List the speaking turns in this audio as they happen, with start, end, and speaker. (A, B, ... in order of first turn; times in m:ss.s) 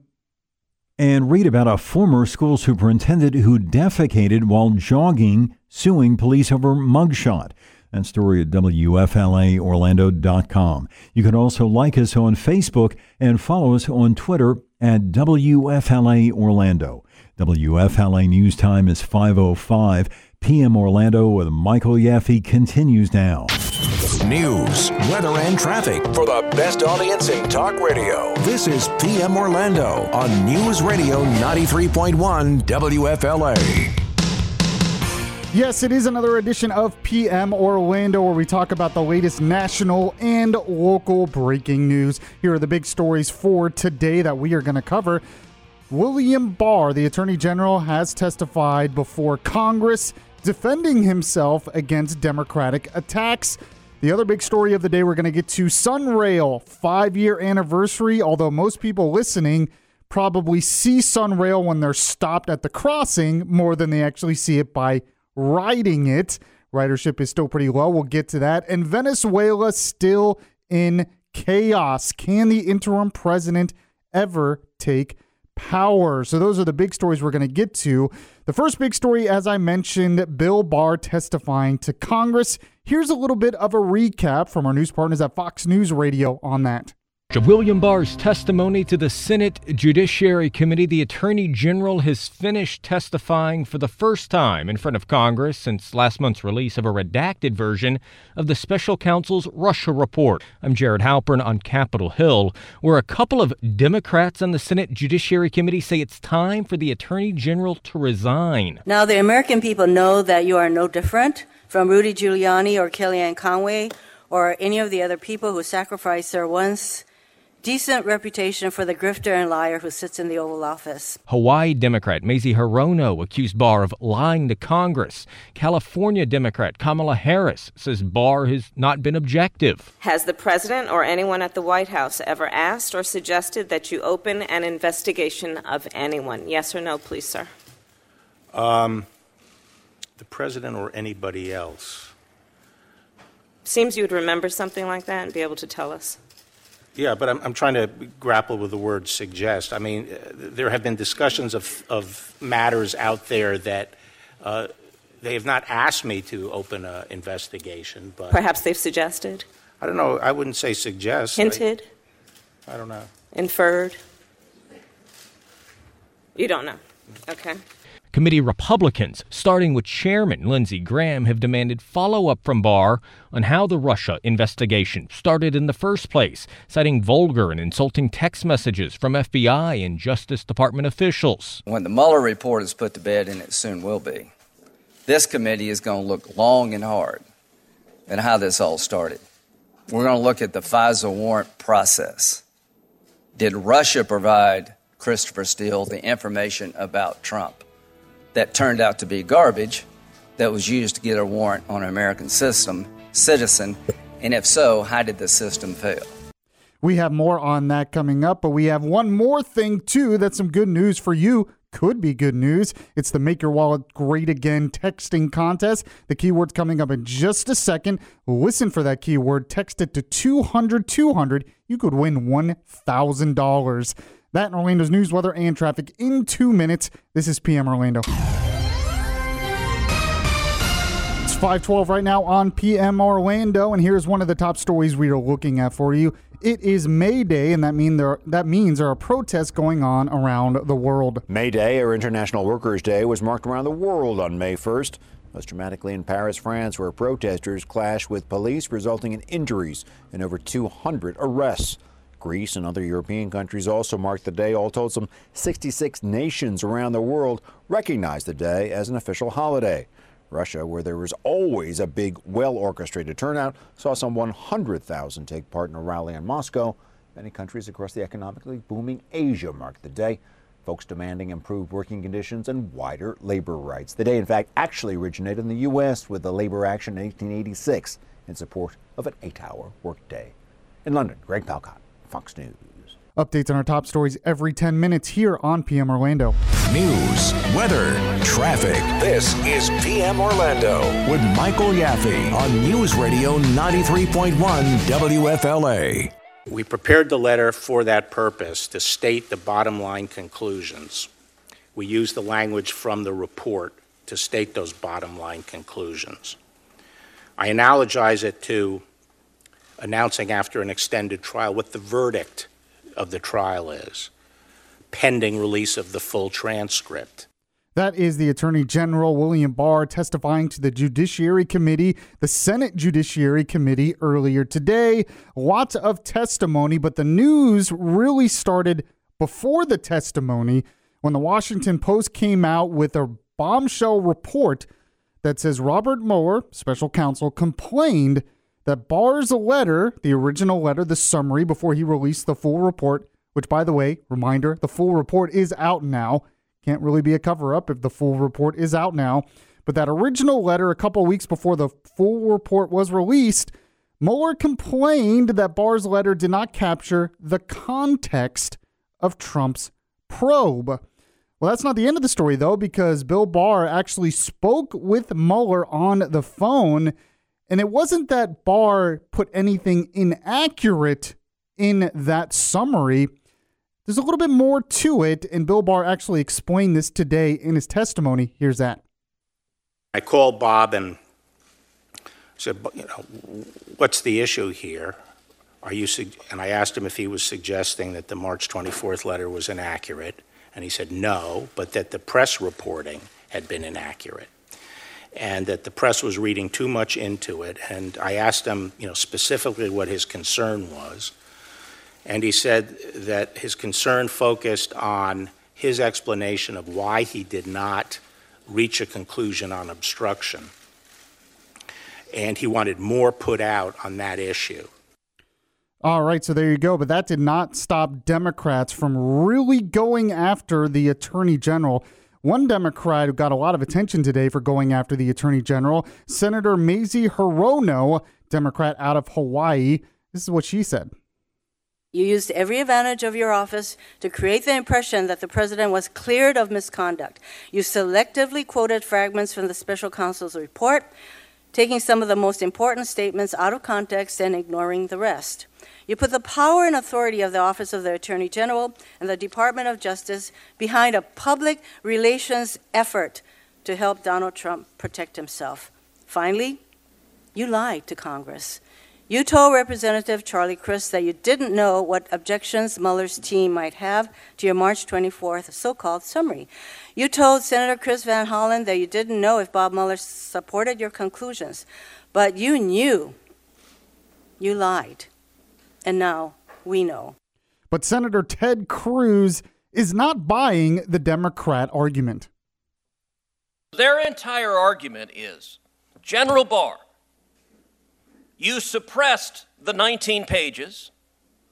0:01.0-0:23.5 A
0:24.2-0:34.0 B
0:35.5-0:45.2 C
0:45.9-1:26.9 C
1:27.3-1:48.8 D
1:48.9-1:57.0 E
1:57.6-2:01.2 E
2:01.3-2:09.9 D
2:10.0-2:17.5 F
2:18.5-2:19.1 G
2:20.2-2:22.1 G
2:23.6-2:26.2 F
2:27.0-2:34.7 G
2:35.2-2:38.4 G
2:38.3-2:39.4 F
2:39.8-2:41.7 G
2:41.4-2:41.9 F
2:42.7-2:43.1 G
2:43.3-2:44.0 F
2:46.4-2:47.6 F
2:48.1-3:01.6 D
3:01.6-3:04.3 H
3:05.1-3:07.2 H
3:08.1-3:09.2 H
3:09.9-3:12.4 H
3:13.4-3:17.6 H
3:18.3-3:19.8 H
3:20.4-3:26.1 H
3:26.8-3:48.1 C
3:51.2-4:01.2 C
4:01.3-4:40.3 I
4:40.8-4:43.0 I
4:43.2-4:46.4 C
4:46.7-4:56.1 B
4:56.5-5:01.1 G
5:01.8-5:06.4 G
5:07.4-5:08.8 G
5:09.8-5:14.1 G
5:14.9-5:17.3 G
5:17.8-5:34.7 C
5:35.2-6:00.8 C
6:01.4-6:06.9 C
6:07.5-6:13.1 C
6:13.9-6:18.8 C
6:20.0-6:21.0 G
6:22.4-6:25.0 G
6:25.6-6:34.3 G
6:35.2-6:41.1 G
6:42.1-6:50.5 G
6:52.1-6:54.7 G
6:55.8-7:10.9 C
7:11.9-7:20.9 E
7:21.5-7:36.6 E
7:37.4-7:53.2 E
7:54.4-7:55.1 E
7:55.8-7:57.1 E
7:57.7-8:02.3 C
8:03.7-8:06.8 J
8:08.4-8:10.9 J